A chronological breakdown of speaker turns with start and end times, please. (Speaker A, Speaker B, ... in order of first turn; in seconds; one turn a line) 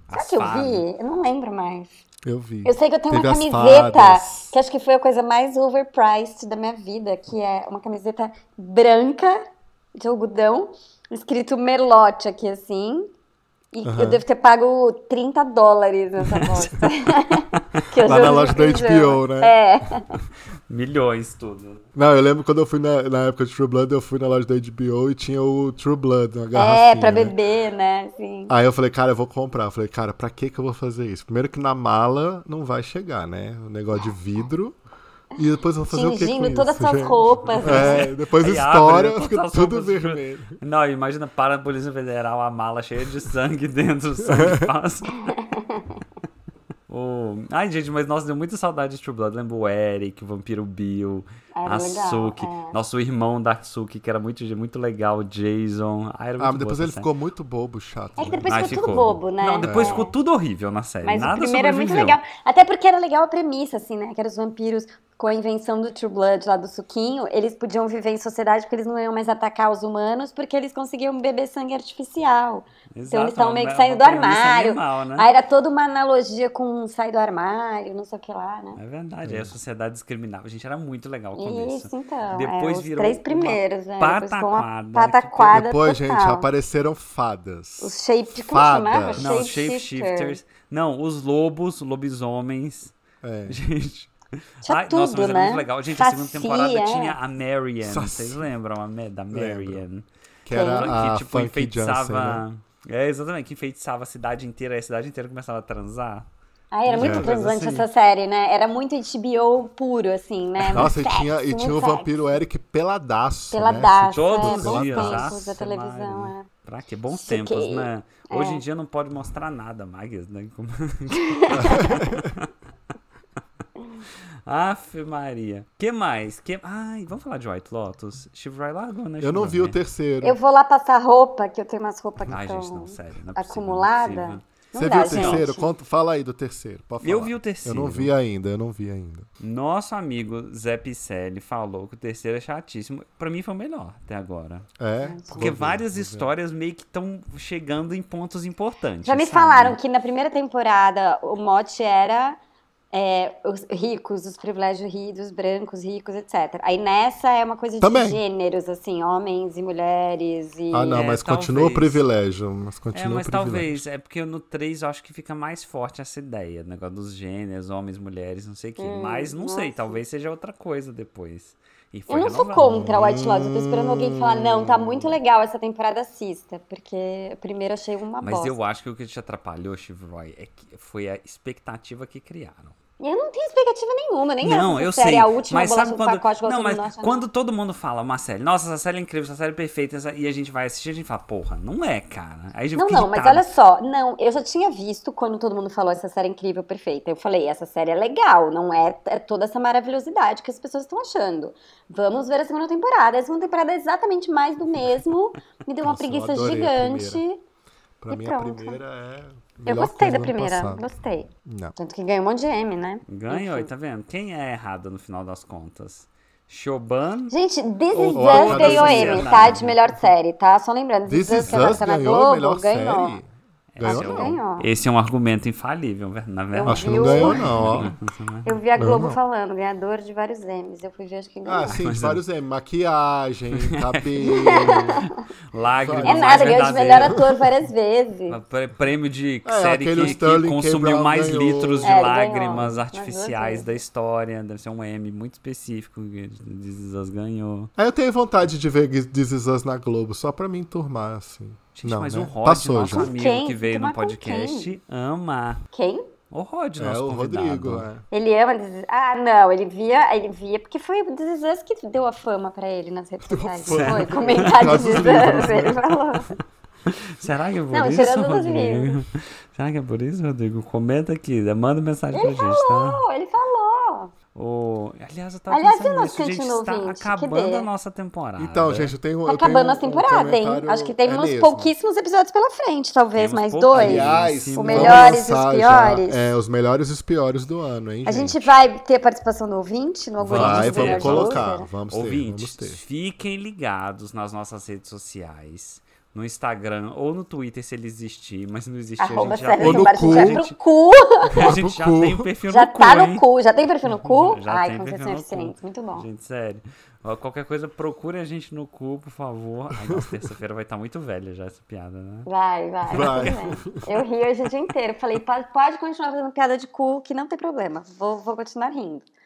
Speaker A: 0.1-0.8
Speaker B: 0.1-2.0
Speaker C: 2.2-4.5
Speaker B: 2.6-9.4
Speaker B: 10.0-13.1
Speaker B: 13.7-20.1
Speaker C: 13.8-14.2
Speaker A: 16.4-16.6
Speaker C: 18.0-19.6
Speaker A: 20.7-21.8
Speaker C: 21.9-27.3
Speaker B: 26.5-28.5
Speaker C: 28.5-34.8
Speaker C: 35.4-40.6
Speaker B: 35.9-38.0
Speaker A: 37.6-45.3
Speaker C: 44.2-44.7
Speaker B: 45.3-46.0
Speaker A: 46.9-57.1
Speaker B: 51.6-52.8
Speaker C: 56.4-58.9
Speaker B: 58.2-60.1
Speaker A: 58.5-62.2
Speaker C: 59.6-60.1
Speaker B: 61.0-78.8
Speaker A: 72.9-75.3
Speaker A: 78.8-85.6
Speaker C: 79.2-79.5
Speaker B: 81.4-86.5
Speaker C: 85.5-89.3
Speaker B: 87.8-90.4
Speaker A: 89.2-92.9
Speaker C: 93.2-93.6
Speaker A: 93.5-100.0
Speaker B: 94.7-97.2
Speaker C: 97.8-98.5
Speaker C: 99.3-99.8
Speaker C: 100.5-102.4
Speaker B: 100.5-101.0
Speaker A: 100.6-106.3
Speaker B: 106.7-112.3
Speaker A: 106.9-107.9
Speaker C: 107.0-107.3
Speaker C: 110.7-115.4
Speaker B: 113.5-116.5
Speaker A: 114.1-122.5
Speaker B: 117.1-118.6
Speaker B: 121.2-122.0
Speaker C: 121.6-122.3
Speaker A: 124.5-129.8
Speaker C: 129.2-130.4
Speaker B: 130.2-135.7
Speaker A: 132.3-135.5
Speaker C: 134.7-139.3
Speaker A: 137.0-138.1
Speaker A: 139.4-144.7
Speaker C: 144.8-146.3
Speaker B: 145.0-145.5
Speaker A: 145.4-149.8
Speaker B: 149.0-152.4
Speaker B: 152.9-161.0
Speaker C: 157.8-158.2
Speaker C: 160.7-163.8
Speaker A: 160.9-162.0
Speaker A: 162.9-172.8
Speaker B: 168.8-170.0
Speaker B: 172.1-178.6
Speaker C: 172.6-175.2
Speaker A: 178.2-182.8
Speaker B: 183.0-187.2
Speaker A: 184.4-193.5
Speaker B: 192.8-207.4
Speaker C: 205.8-207.2
Speaker C: 208.0-210.9
Speaker B: 208.1-208.8
Speaker B: 209.7-213.7
Speaker C: 211.4-211.7
Speaker A: 213.1-217.3
Speaker B: 217.3-223.2
Speaker A: 217.9-219.8
Speaker C: 218.1-219.7
Speaker C: 221.1-224.4
Speaker A: 221.4-221.8
Speaker A: 223.7-228.5
Speaker B: 223.8-224.7
Speaker B: 226.5-227.6
Speaker C: 226.7-227.9
Speaker B: 228.4-231.8
Speaker C: 228.8-229.2
Speaker C: 231.4-235.0
Speaker A: 231.7-232.2
Speaker A: 233.6-234.9
Speaker B: 234.2-235.2
Speaker A: 235.5-237.2
Speaker C: 235.7-237.3
Speaker B: 236.0-238.4
Speaker A: 238.3-247.7
Speaker C: 239.4-242.0
Speaker B: 241.8-243.8
Speaker C: 247.8-253.1
Speaker A: 251.8-255.6
Speaker B: 252.9-254.7
Speaker B: 255.7-256.1
Speaker A: 256.3-257.9
Speaker C: 256.8-258.1
Speaker B: 258.1-266.3
Speaker C: 263.3-265.8
Speaker A: 263.7-265.6
Speaker A: 266.9-273.0
Speaker B: 267.7-269.0
Speaker B: 272.1-274.1
Speaker A: 274.4-278.9
Speaker B: 275.5-277.7
Speaker C: 278.4-281.7
Speaker B: 279.3-286.4
Speaker A: 283.1-285.2
Speaker C: 283.7-288.4
Speaker B: 288.1-291.7
Speaker A: 290.2-300.5
Speaker C: 290.3-292.8
Speaker B: 299.0-301.4
Speaker C: 299.6-300.4
Speaker A: 301.3-303.2
Speaker C: 301.4-302.3
Speaker B: 302.5-306.1
Speaker A: 304.0-312.3
Speaker C: 309.9-310.1
Speaker B: 312.3-319.1
Speaker A: 312.9-313.6
Speaker C: 312.9-313.9